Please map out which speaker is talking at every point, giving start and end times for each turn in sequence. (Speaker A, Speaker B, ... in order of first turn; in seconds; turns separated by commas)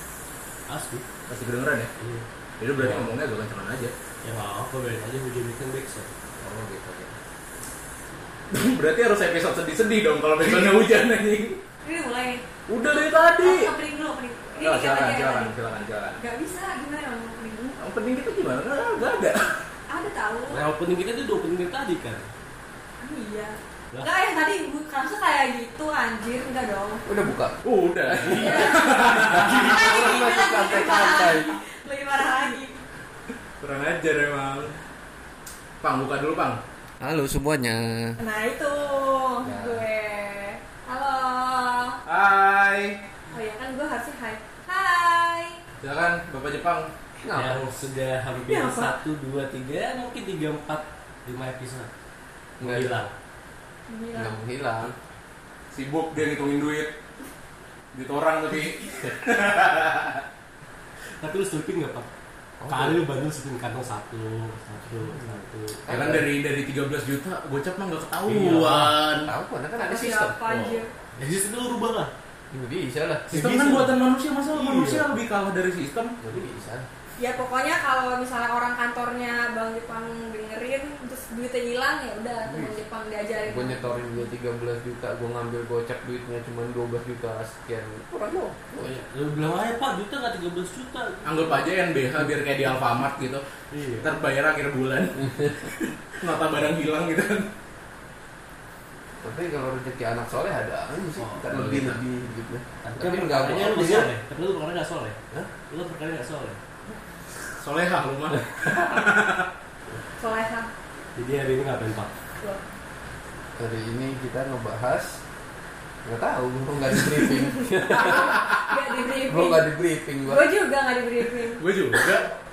Speaker A: 0.7-1.1, Speaker B: 1.3-1.9, Speaker A: 2.0-2.2, Speaker B: 2.6-3.9, Speaker A: 2.8-3.1, Speaker A: 4.2-6.1, Speaker B: 6.4-7.2, Speaker B: 8.5-11.6, Speaker C: 11.8-12.4, Speaker B: 12.7-13.7, Speaker C: 13.4-15.5, Speaker B: 14.6-16.2, Speaker C: 16.2-17.8, Speaker B: 17.8-19.6, Speaker C: 19.9-20.6, Speaker A: 20.5-22.3, Speaker C: 23.0-27.0, Speaker D: 27.1-27.6, Speaker B: 27.6-30.0, Speaker C: 28.4-29.0, Speaker D: 29.2-31.6, Speaker C: 29.6-32.8, Speaker B: 33.6-34.8, Speaker B: 35.8-36.6, Speaker D: 37.0-38.2, Speaker C: 38.2-42.0, Speaker D: 39.4-39.8, Speaker B: 42.1-43.0, Speaker C: 43.3-45.6, Speaker B: 45.8-46.9, Speaker D: 47.2-47.8, Speaker A: 47.3-51.9, Speaker C: 48.4-48.9, Speaker D: 52.6-52.9, Speaker A: 52.6-53.1, Speaker C: 53.9-54.4, Speaker D: 54.1-55.0, Speaker B: 55.7-57.0, Speaker B: 57.9-60.2, Speaker A: 61.2-62.1, Speaker D: 62.6-63.0, Speaker A: 62.7-65.8, Speaker D: 65.8-66.2, Speaker B: 65.9-69.3, Speaker A: 68.3-69.0, Speaker D: 69.2-70.4, Speaker C: 69.8-70.9, Speaker B: 70.4-70.8, Speaker A: 71.2-72.1, Speaker D: 72.5-73.3, Speaker B: 73.3-76.2, Speaker A: 73.3-74.0, Speaker A: 74.5-75.1, Speaker D: 76.2-76.9, Speaker C: 77.2-84.0, Speaker D: 82.5-82.8, Speaker D: 83.5-88.9, Speaker A: 88.8-91.7, Speaker B: 91.2-93.5, Speaker A: 93.7-94.1, Speaker B: 94.0-97.5, Speaker D: 99.2-104.1, Speaker B: 101.5-102.0, Speaker A: 102.8-105.2, Speaker A: 105.7-106.6, Speaker B: 107.6-109.5, Speaker C: 110.2-110.7, Speaker A: 111.2-112.1, Speaker D: 113.6-115.2, Speaker D: 116.0-118.4, Speaker B: 118.0-118.7, Speaker C: 118.0-119.7, Speaker D: 119.3-120.5, Speaker C: 120.2-122.2, Speaker B: 121.6-122.3